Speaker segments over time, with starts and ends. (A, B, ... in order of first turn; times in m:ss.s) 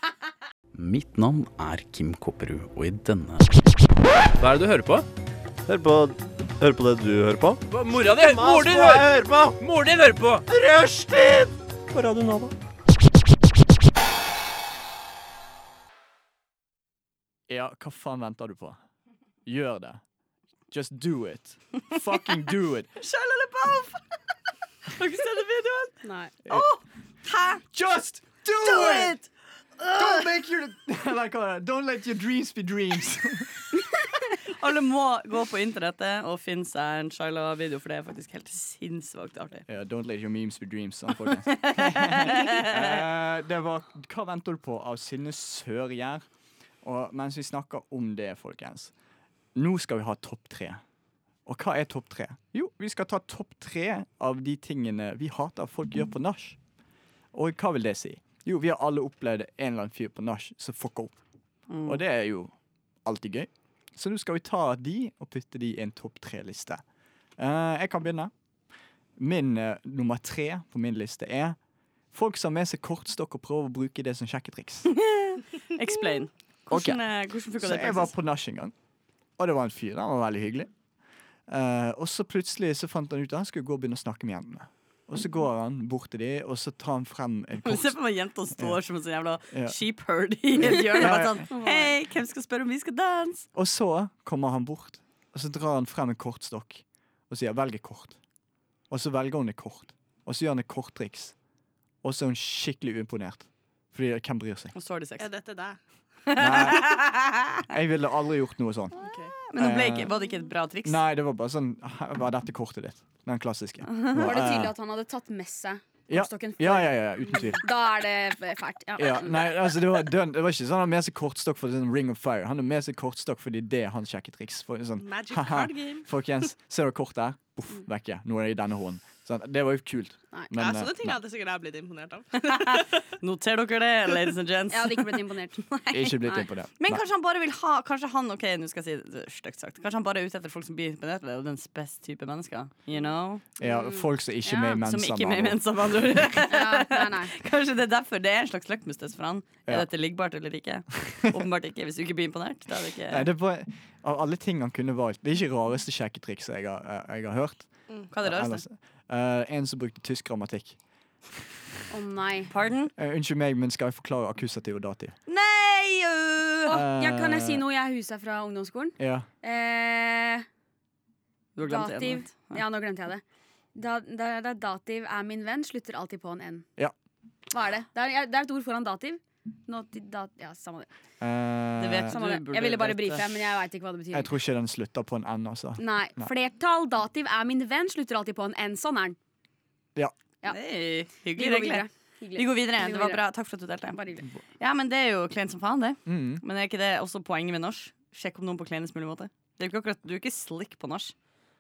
0:00.7-0:03.6 A
0:04.4-0:05.1 B
0:05.7-0:09.6 C
0:07.7-0:10.5 B
0:10.5-0:12.5 C
0:17.5-0:18.8 D
0:19.5-0:20.0 D
0:20.7-0:22.9 D
0:23.0-0:24.0 E
0:24.9-0:25.9 E
0:26.0-0:26.4 F
0:26.5-0:27.6 E
0:27.7-0:29.2 D
0:28.6-0:29.3 E
0:29.8-0:30.2 E
0:29.9-0:33.6 D
0:34.6-0:39.6 E
0:39.7-0:46.3 D
0:41.5-0:43.0 E
0:46.8-0:48.9 D
0:49.6-0:50.8 D
0:51.5-0:56.6 D
0:57.3-1:01.2 D
1:01.7-1:02.0 E
1:01.9-1:02.5 D
1:03.0-1:06.8 D
1:07.4-1:08.3 D
1:09.2-1:11.6 D
1:12.1-1:14.9 D
1:14.9-1:18.1 E
1:16.7-1:17.0 D
1:17.6-1:18.7 D
1:19.4-1:20.7 D
1:21.5-1:28.0 D
1:27.6-1:33.5 E
1:29.5-1:29.8 D
1:30.5-1:31.5 D
1:31.0-1:32.0 F
1:33.5-1:38.2 D
1:38.9-1:41.4 D
1:42.0-1:44.7 D
1:44.8-1:45.3 E
1:45.2-1:45.8 G
1:46.3-1:47.5 E
1:46.4-1:47.1 D
1:47.6-1:49.0 D
1:49.0-1:49.3 G
1:49.5-1:51.0 E
1:49.6-1:50.1 D
1:50.8-1:54.7 D
1:53.9-1:54.2 E
1:54.2-1:59.6 F
1:56.1-1:57.9 D
1:59.0-2:11.2 D
2:05.0-2:06.1 G
2:10.6-2:13.0 G
2:12.4-2:15.2 E
2:14.7-2:15.7 F
2:15.7-2:16.3 E
2:15.9-2:17.0 D
2:16.8-2:23.5 E
2:23.6-2:26.3 D
2:23.6-2:24.0 F
2:24.4-2:33.3 E
2:26.5-2:27.3 F
2:33.1-2:40.8 D
2:38.1-2:38.6 E
2:41.9-2:42.5 F
2:42.5-2:42.9 E
2:43.0-2:45.2 D
2:45.3-2:46.8 E
2:46.7-2:47.6 D
2:46.7-2:50.5 F
2:49.0-2:49.3 D
2:51.6-2:52.6 E
2:51.6-2:53.2 F
2:53.8-2:56.7 F
2:57.5-3:00.9 F
3:01.2-3:02.2 D
3:01.8-3:03.2 E
3:02.1-3:04.3 F
3:04.1-3:06.3 D
3:05.8-3:09.2 F
3:10.5-3:14.0 E
3:11.3-3:13.2 F
3:13.9-3:14.3 F
3:14.6-3:21.1 E
3:16.1-3:16.4 D